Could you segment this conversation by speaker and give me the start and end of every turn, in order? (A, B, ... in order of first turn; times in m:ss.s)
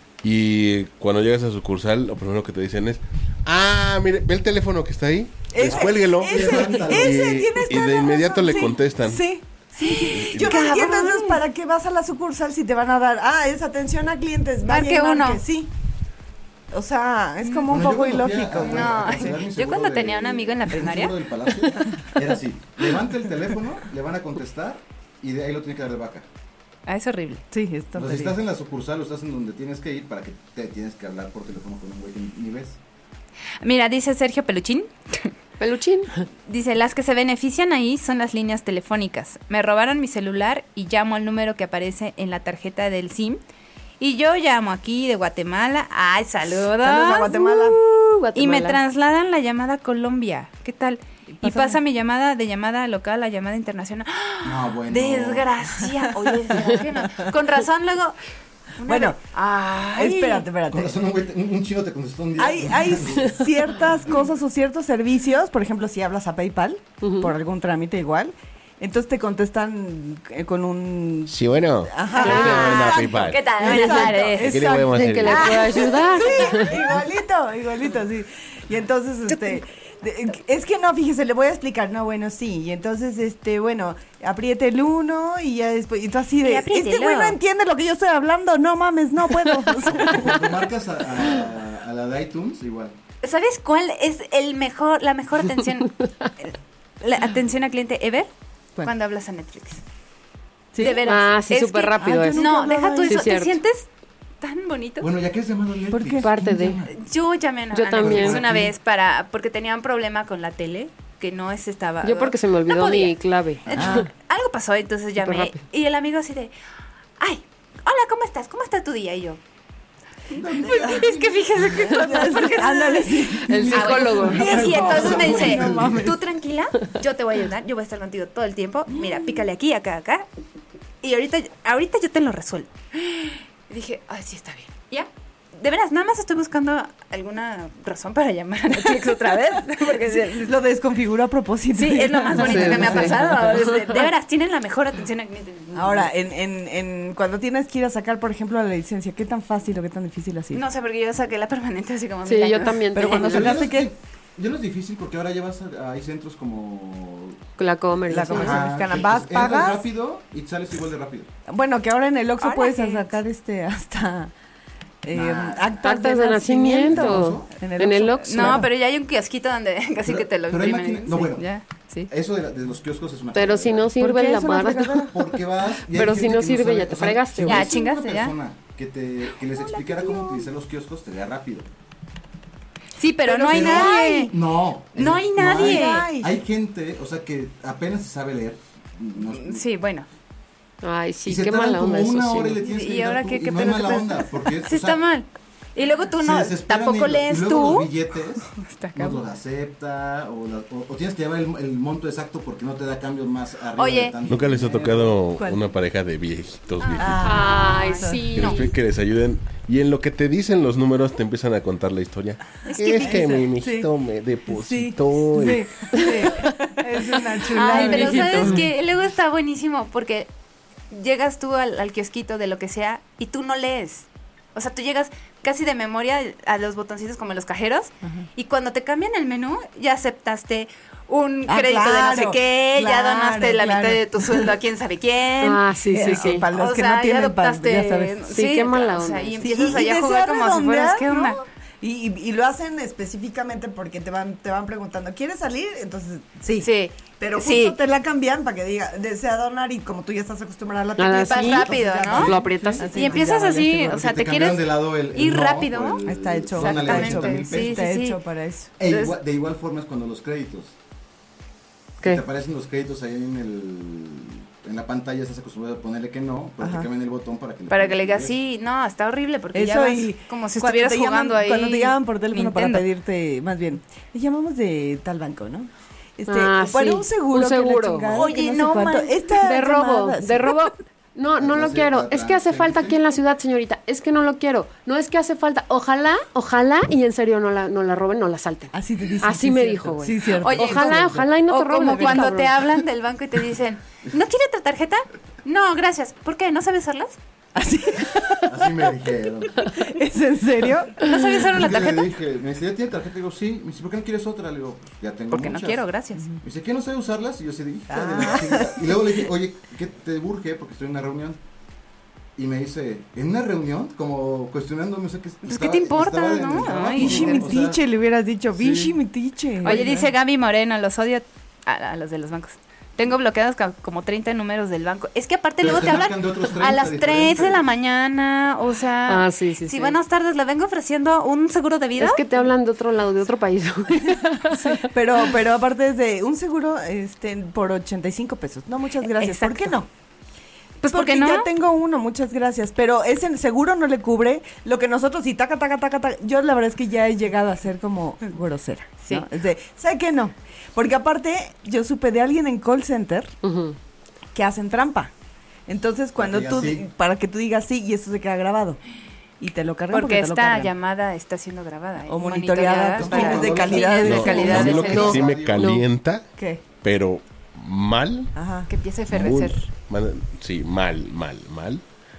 0:00.2-0:09.2 A
0:05.5-0:15.7 B
0:05.6-0:07.8 C
0:09.8-0:11.4 D
0:10.1-0:10.6 A
0:14.6-0:15.4 D
0:16.7-0:19.4 B
0:17.4-0:17.7 D
0:17.7-0:26.2 C
0:18.6-0:21.2 D
0:26.9-0:27.4 D
0:27.5-0:28.4 B
0:27.9-0:32.8 C
0:33.6-0:35.3 D
0:35.6-0:36.2 E
0:36.5-0:43.4 D
0:44.0-0:47.8 D
0:46.8-0:47.8 B
0:47.8-0:48.8 E
0:48.3-0:58.2 D
0:51.3-0:51.8 B
0:54.4-0:55.5 C
0:56.1-0:57.3 B
0:58.8-1:00.4 D
0:58.8-0:59.2 B
0:59.9-1:01.0 B
1:00.7-1:03.5 C
1:02.4-1:30.5 B
1:07.0-1:07.3 E
1:11.3-1:15.6 A
1:12.2-1:14.8 D
1:12.2-1:12.9 E
1:14.9-1:16.7 E
1:15.5-1:16.5 D
1:26.4-1:27.4 D
1:29.9-1:33.0 C
1:33.2-1:38.3 D
1:38.8-1:39.8 D
1:40.7-1:41.1 B
1:40.8-1:43.9 D
1:41.0-1:43.6 E
1:42.0-1:43.3 B
1:44.4-1:45.1 D
1:45.0-1:47.0 C
1:45.9-1:46.4 B
1:46.2-1:46.8 E
1:46.9-1:56.5 D
1:47.7-1:48.4 E
1:48.0-1:48.7 C
1:52.0-1:53.9 E
1:53.7-1:54.0 C
1:53.7-1:54.1 B
1:55.2-1:55.5 E
1:57.2-1:59.4 D
2:00.3-2:02.0 C
2:00.3-2:10.2 D
2:01.9-2:03.7 B
2:03.4-2:06.1 C
2:03.5-2:04.7 E
2:04.6-2:06.2 B
2:11.0-2:20.5 D
2:18.7-2:23.8 B
2:21.7-2:26.1 D
2:25.7-2:30.6 B
2:30.5-2:32.9 D
2:32.2-2:33.6 E
2:32.9-2:33.9 B
2:33.2-2:37.4 C
2:37.6-2:38.6 E
2:38.1-2:39.9 B
2:38.3-2:41.3 C
2:41.5-2:44.3 B
2:42.4-2:43.1 D
2:45.0-2:48.7 B
2:45.1-2:45.6 C
2:45.8-2:48.6 E
2:46.8-2:47.5 C
2:48.2-2:52.1 D
2:50.0-2:51.5 C
2:52.1-2:53.9 C
2:53.3-2:55.1 E
2:54.0-2:55.3 B
2:55.1-3:01.7 C
2:55.9-2:57.7 E
2:57.4-2:58.3 D
2:59.6-3:00.4 D
3:03.0-3:04.3 D
3:03.2-3:04.3 B
3:03.5-3:09.6 C
3:04.9-3:06.1 D
3:05.4-3:06.4 B
3:09.3-3:10.1 D
3:10.8-3:12.6 E
3:11.2-3:15.0 C
3:12.6-3:17.9 D
3:16.2-3:25.1 C
3:18.5-3:19.2 D
3:23.7-3:24.2 D
3:24.3-3:27.2 A
3:24.6-3:25.6 B
3:26.8-3:28.6 D
3:27.0-3:28.3 B
3:27.2-3:28.7 E
3:28.3-3:35.9 A
3:32.7-3:33.4 D
3:33.0-3:33.9 B
3:34.5-3:38.6 B
3:36.0-3:36.4 E
3:37.5-3:40.3 D
3:37.6-3:38.6 E
3:40.9-4:01.4 D
3:51.4-3:54.5 B
3:55.4-3:56.4 E
3:55.9-3:58.2 B
3:58.3-3:59.4 E
3:59.4-4:14.0 B
4:06.6-4:07.8 D
4:11.0-4:13.0 E
4:11.2-4:12.3 D
4:12.1-4:12.8 C
4:12.9-4:18.2 D
4:13.9-4:17.9 C
4:16.0-4:18.7 B
4:18.8-4:20.7 C
4:18.8-4:19.2 D
4:22.0-4:28.3 C
4:26.6-4:26.9 B
4:27.7-4:32.8 D
4:29.5-4:40.6 B
4:36.3-4:38.1 E
4:38.1-4:39.2 D
4:39.4-4:52.5 E
4:41.4-4:43.0 C
4:48.7-4:52.3 B
4:50.4-4:57.2 D
4:57.5-4:58.9 B
4:58.4-4:59.7 C
4:59.6-5:01.1 B
5:01.0-5:02.1 D
5:01.5-5:05.8 C
5:05.3-5:06.2 D
5:06.4-5:11.4 C
5:07.9-5:09.2 B
5:12.4-5:17.8 C
5:15.4-5:17.5 D
5:16.6-5:20.1 B
5:18.5-5:19.0 C
5:19.6-5:32.4 D
5:25.6-5:27.6 C
5:29.1-5:29.9 E
5:32.0-5:34.9 E
5:34.8-5:39.9 B
5:39.1-5:39.7 D
5:40.8-5:41.5 D
5:40.9-5:53.3 B
5:53.4-5:53.8 E
5:54.3-5:55.1 B
5:55.7-5:58.8 B
5:56.2-5:56.9 C
5:59.4-6:00.7 B
5:59.9-6:05.2 D
6:02.0-6:05.1 B
6:03.0-6:05.7 C
6:04.0-6:06.3 A
6:05.6-6:05.8 E
6:06.4-6:06.6 B
6:06.8-6:08.3 A
6:08.3-6:08.7 B
6:08.7-6:09.7 D
6:09.1-6:11.8 A